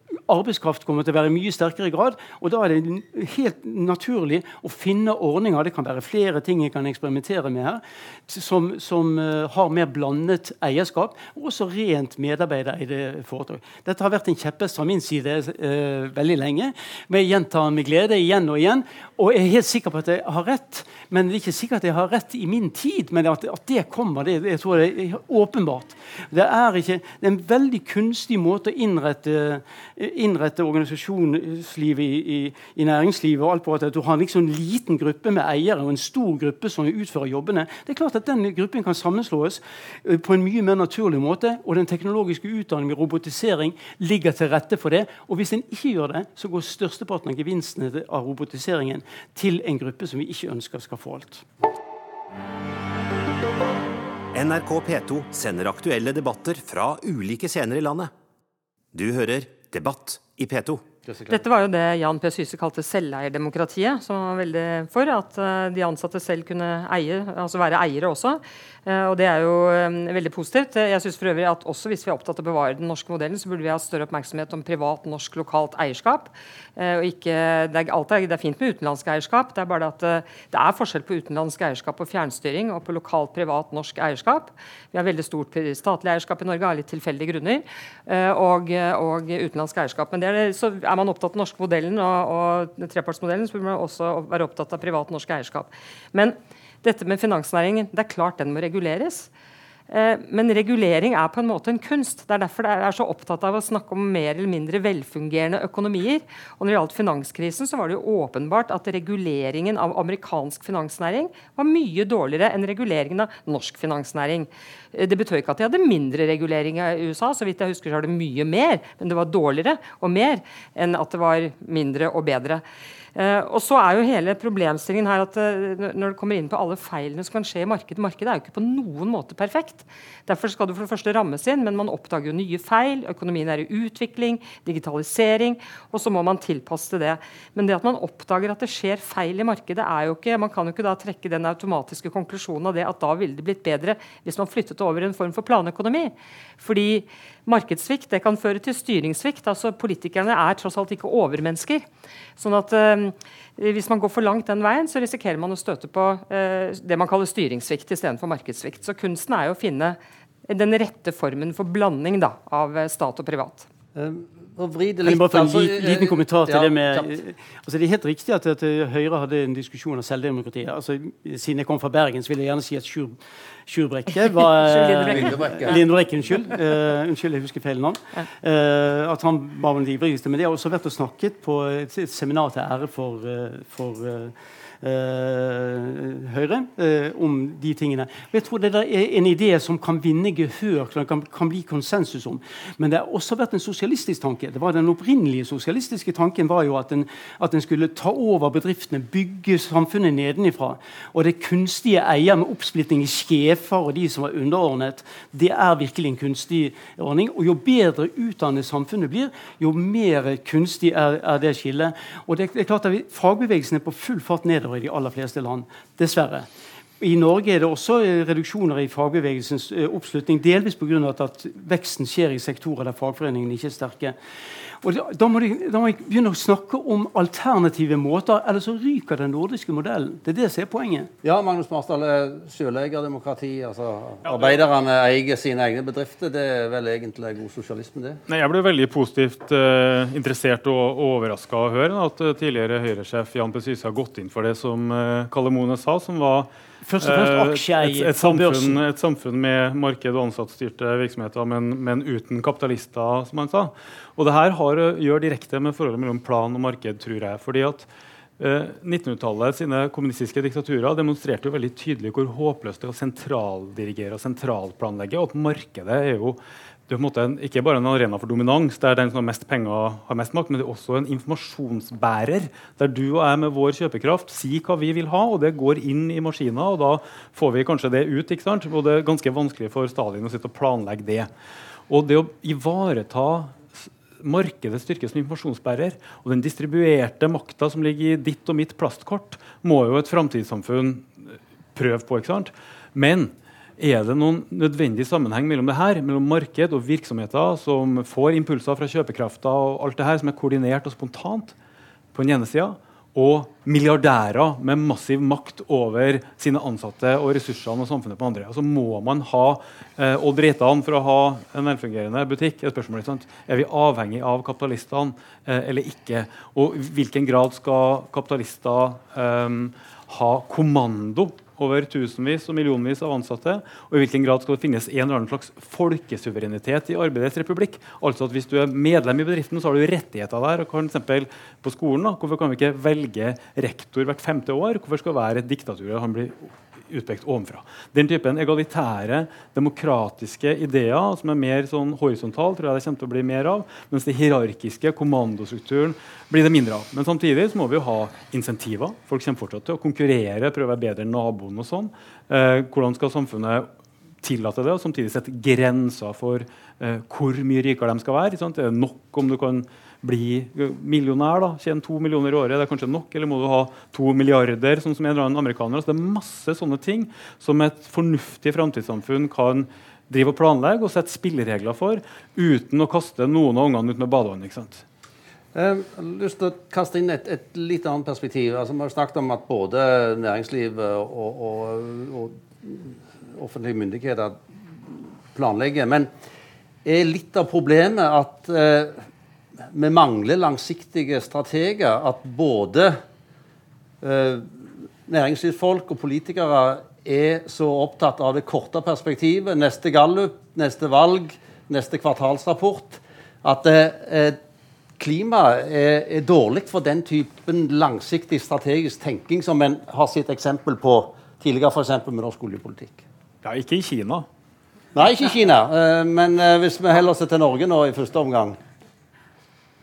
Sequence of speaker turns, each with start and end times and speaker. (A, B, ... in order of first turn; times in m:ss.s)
0:00.3-0:51.4 A
0:54.3-0:58.1 B
0:58.9-1:00.8 B
1:01.1-1:01.4 C
1:01.3-1:39.3 D
1:39.9-2:02.6 D
2:03.2-2:31.9 D
2:32.4-2:43.7 D
2:44.0-2:47.2 C
2:45.1-3:36.5 A
2:54.4-2:55.8 D
2:55.0-2:55.8 C
3:37.0-3:44.2 A
3:44.8-3:51.1 A
3:51.2-3:58.2 C
3:58.3-4:06.5 E
4:06.8-4:08.8 A
4:07.0-4:17.9 E
4:18.4-4:41.3 E
4:41.9-4:51.1 E
4:51.8-5:01.6 E
5:02.1-5:53.7 E
5:54.2-6:14.8 E
6:15.5-6:26.1 C
6:26.8-6:29.0 C
6:29.7-6:33.0 C
6:34.0-6:44.4 C
6:45.0-6:53.0 C
6:53.4-6:54.3 E
6:54.9-6:58.6 C